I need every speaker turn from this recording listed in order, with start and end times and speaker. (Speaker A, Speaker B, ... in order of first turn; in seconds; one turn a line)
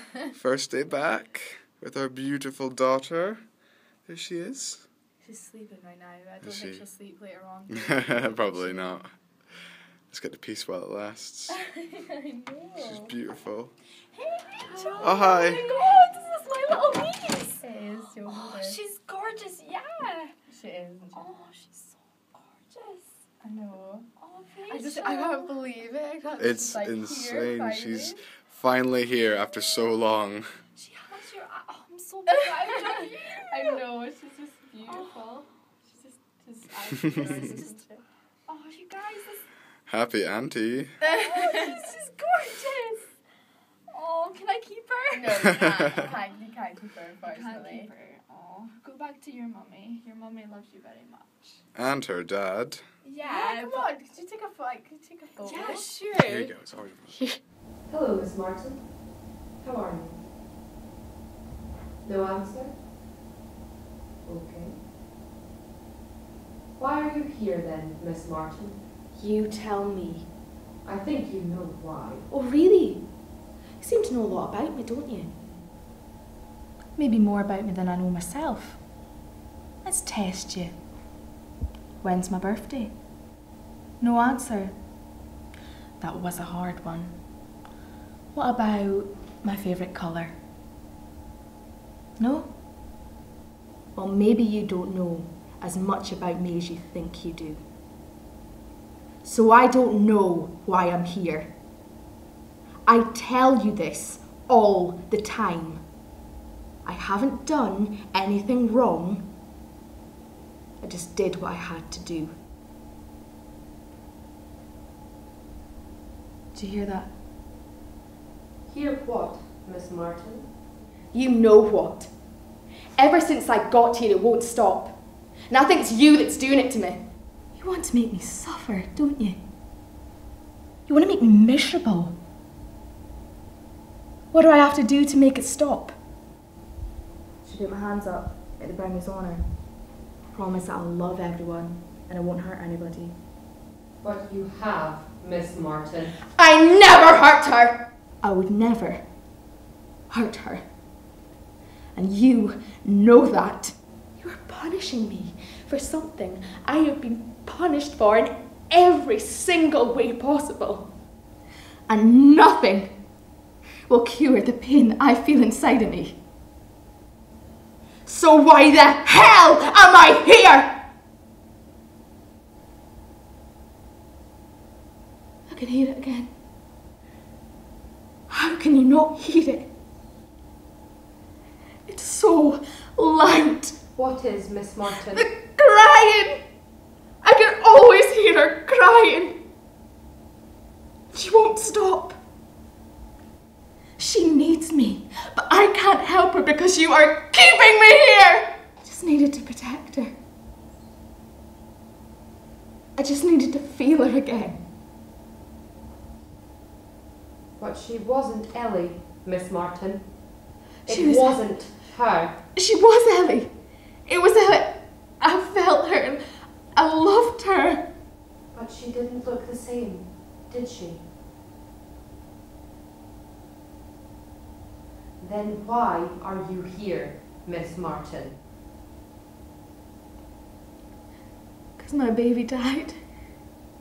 Speaker A: 0.3-3.4
Speaker A: 4.1-4.8
Speaker B: 5.2-6.4
Speaker C: 6.2-9.0
Speaker A: 6.4-6.9
Speaker A: 7.7-9.1
Speaker B: 8.4-8.8
Speaker A: 10.1-11.6
Speaker C: 12.2-13.1
Speaker A: 12.8-13.7
Speaker B: 14.2-17.7
Speaker C: 14.7-16.1
Speaker A: 15.0-15.6
Speaker C: 16.7-17.0
Speaker C: 17.6-18.8
Speaker B: 18.2-20.3
Speaker C: 20.5-21.3
Speaker B: 21.1-23.1
Speaker C: 23.4-24.1
Speaker B: 24.2-25.7
Speaker C: 24.6-28.2
Speaker A: 26.4-30.5
Speaker B: 30.8-34.0
Speaker C: 32.3-35.5
Speaker B: 34.8-36.1
Speaker C: 36.0-38.0
Speaker B: 37.2-37.9
Speaker B: 38.5-39.4
Speaker A: 39.9-41.0
Speaker B: 41.1-43.0
Speaker C: 41.1-41.8
Speaker B: 43.9-46.2
Speaker C: 45.1-47.9
Speaker B: 47.2-51.6
Speaker A: 51.8-52.8
Speaker B: 53.1-54.0
Speaker C: 53.2-56.1
Speaker B: 55.3-56.5
Speaker A: 56.1-57.2
Speaker D: 57.9-58.9
Speaker D: 59.6-60.2
Speaker D: 62.0-62.7
Speaker D: 64.2-64.8
Speaker D: 66.8-68.8
Speaker E: 69.2-70.3
Speaker D: 70.8-72.2
Speaker E: 72.3-73.0
Speaker E: 73.8-75.3
Speaker E: 77.0-78.8
Speaker E: 79.8-80.8
Speaker E: 82.0-83.0
Speaker E: 84.0-84.8
Speaker E: 86.0-87.2
Speaker E: 88.3-90.4
Speaker E: 92.2-92.5
Speaker E: 94.0-97.6
Speaker E: 99.2-101.5
Speaker E: 102.8-105.8
Speaker E: 106.8-109.3
Speaker E: 110.8-112.3
Speaker E: 116.5-117.1
Speaker D: 118.7-120.5
Speaker E: 121.1-122.1
Speaker E: 123.0-125.0
Speaker E: 125.5-129.4
Speaker E: 130.9-132.2
Speaker E: 134.3-135.9
Speaker E: 137.4-139.5
Speaker E: 140.3-143.2
Speaker D: 144.0-146.2
Speaker E: 146.3-149.1
Speaker E: 150.1-150.7
Speaker E: 151.9-160.9
Speaker E: 161.9-163.0
Speaker E: 163.9-166.2
Speaker E: 168.1-170.8
Speaker E: 175.5-176.3
Speaker E: 178.3-179.7
Speaker E: 181.9-183.8
Speaker D: 183.9-185.3
Speaker E: 185.0-186.4
Speaker E: 187.2-189.4
Speaker E: 191.1-192.2
Speaker E: 194.0-200.1
Speaker E: 203.0-204.6
Speaker D: 207.6-210.1
Speaker D: 210.9-212.4
Speaker E: 210.9-211.7
Speaker E: 212.5-213.5
Speaker E: 214.1-217.9
Speaker D: 218.5-221.0
Speaker D: 225.2-228.4
Speaker E: 231.8-233.0